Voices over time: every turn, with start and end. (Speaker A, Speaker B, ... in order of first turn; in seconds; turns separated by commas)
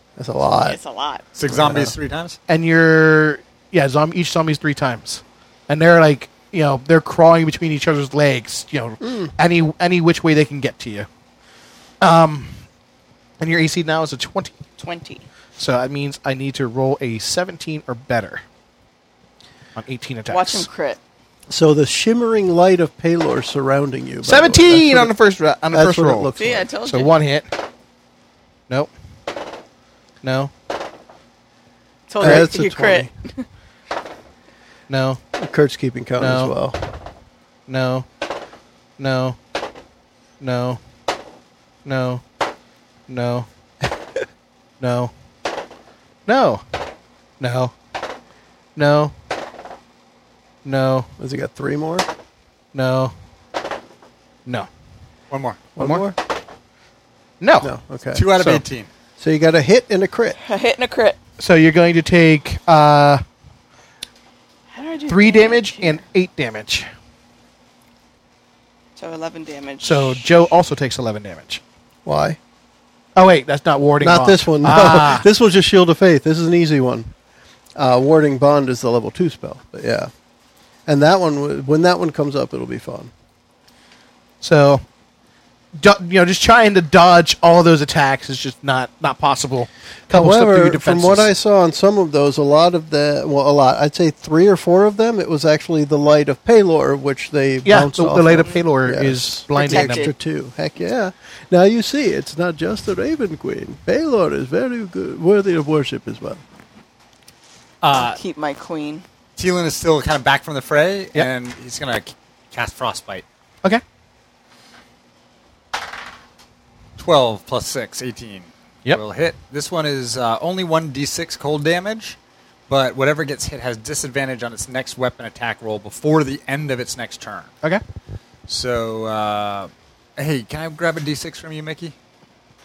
Speaker A: 0.2-0.8, Speaker B: 0.6-1.2, Speaker C: 1.4-2.4, Speaker A: 1.5-1.9, Speaker D: 2.5-11.1, Speaker A: 9.0-9.3, Speaker D: 12.0-12.6, Speaker D: 13.4-14.6, Speaker B: 14.8-15.2, Speaker D: 15.6-18.4, Speaker D: 19.8-20.7, Speaker B: 20.3-21.0, Speaker A: 21.5-25.1, Speaker D: 24.2-27.5, Speaker A: 25.7-26.7, Speaker B: 26.4-27.1, Speaker D: 30.2-30.5, Speaker B: 32.1-33.5, Speaker A: 32.2-33.1, Speaker D: 34.9-35.2, Speaker A: 35.4-36.8, Speaker D: 36.2-36.5, Speaker D: 37.7-38.1, Speaker D: 39.0-39.4, Speaker D: 40.4-40.8, Speaker D: 41.9-42.2, Speaker D: 43.1-43.5, Speaker D: 44.8-45.1, Speaker D: 46.3-46.6, Speaker D: 47.4-47.7, Speaker D: 48.8-49.1, Speaker D: 50.6-51.1, Speaker A: 51.2-52.1, Speaker D: 52.7-53.1, Speaker C: 55.3-55.6, Speaker A: 55.8-56.2, Speaker D: 55.8-56.1, Speaker D: 57.4-57.7, Speaker A: 57.6-58.2, Speaker C: 58.1-58.9, Speaker D: 58.4-58.6, Speaker A: 59.2-60.4, Speaker B: 60.4-61.2, Speaker D: 61.4-63.2, Speaker B: 64.7-66.0, Speaker D: 65.1-66.9, Speaker B: 69.0-70.3, Speaker D: 69.8-71.6, Speaker A: 72.0-72.4, Speaker D: 73.2-75.3, Speaker A: 74.0-77.1, Speaker A: 77.8-80.1, Speaker A: 80.9-83.1, Speaker D: 84.4-84.8, Speaker D: 85.8-91.3, Speaker A: 90.1-106.4, Speaker D: 97.7-100.1, Speaker B: 99.6-100.1, Speaker C: 107.8-108.2, Speaker B: 107.9-109.0, Speaker C: 109.4-113.2, Speaker C: 117.0-122.2, Speaker C: 122.7-127.5, Speaker C: 128.5-131.9